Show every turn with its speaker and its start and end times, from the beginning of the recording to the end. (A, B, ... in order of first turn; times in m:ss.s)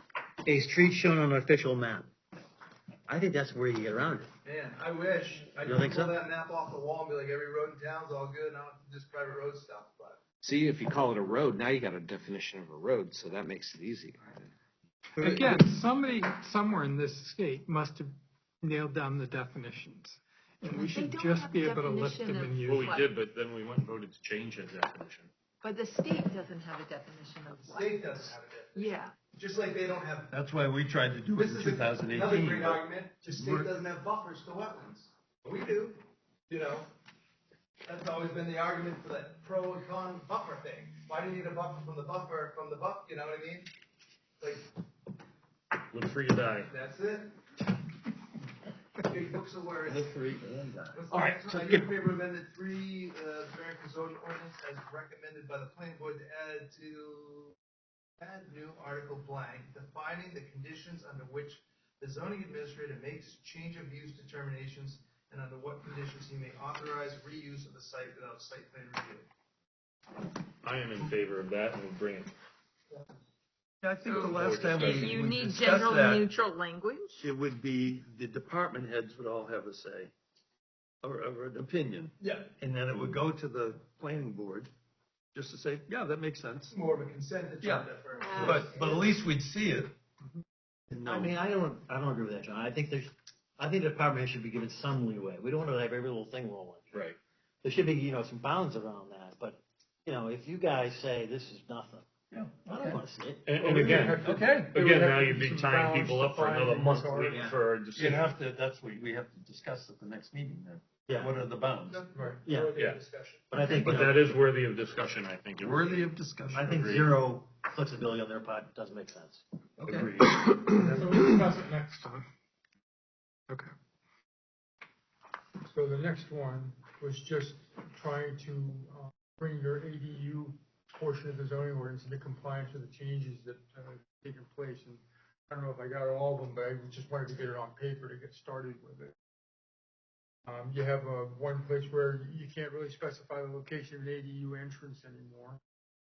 0:00.4-0:02.1 A
0:03.1-0:04.3 A
0:04.4-0:10.2 B
0:05.6-0:06.2 A
0:10.4-0:14.5 C
0:15.2-0:22.9 D
0:20.7-0:23.0 E
0:22.5-0:25.3 F
0:25.6-0:28.0 E
0:27.5-0:30.3 B
0:28.7-0:29.1 E
0:30.3-0:33.7 G
0:31.3-0:36.9 B
0:37.9-0:43.7 B
0:44.4-0:44.7 B
0:45.9-0:46.7 F
0:46.7-0:47.4 B
0:49.1-0:50.0 B
0:49.9-0:51.4 G
0:50.9-0:57.6 B
0:51.1-0:51.8 C
0:58.2-1:09.3 B
1:10.6-1:12.3 F
1:13.8-1:16.3 G
1:14.0-1:15.2 F
1:14.1-1:17.2 E
1:17.2-1:20.1 G
1:21.0-1:24.7 G
1:22.2-1:22.5 B
1:25.3-1:26.7 G
1:26.7-1:29.1 B
1:27.6-1:29.9 G
1:28.2-1:28.7 E
1:30.9-1:31.4 G
1:31.0-1:37.1 A
1:37.6-1:42.0 A
1:42.3-1:43.0 G
1:42.6-1:43.4 A
1:43.4-1:48.3 F
1:43.6-1:47.5 H
1:44.2-1:44.7 G
1:47.9-1:52.0 G
1:51.1-1:51.3 A
1:51.9-1:53.5 B
1:52.1-1:52.6 H
1:52.4-1:52.8 A
1:52.7-1:53.0 F
1:53.5-1:54.4 A
1:53.5-1:57.1 F
1:55.6-1:56.8 G
1:56.5-1:59.4 A
1:59.8-2:01.3 G
2:00.8-2:02.2 D
2:05.6-2:19.1 H
2:20.4-2:25.6 H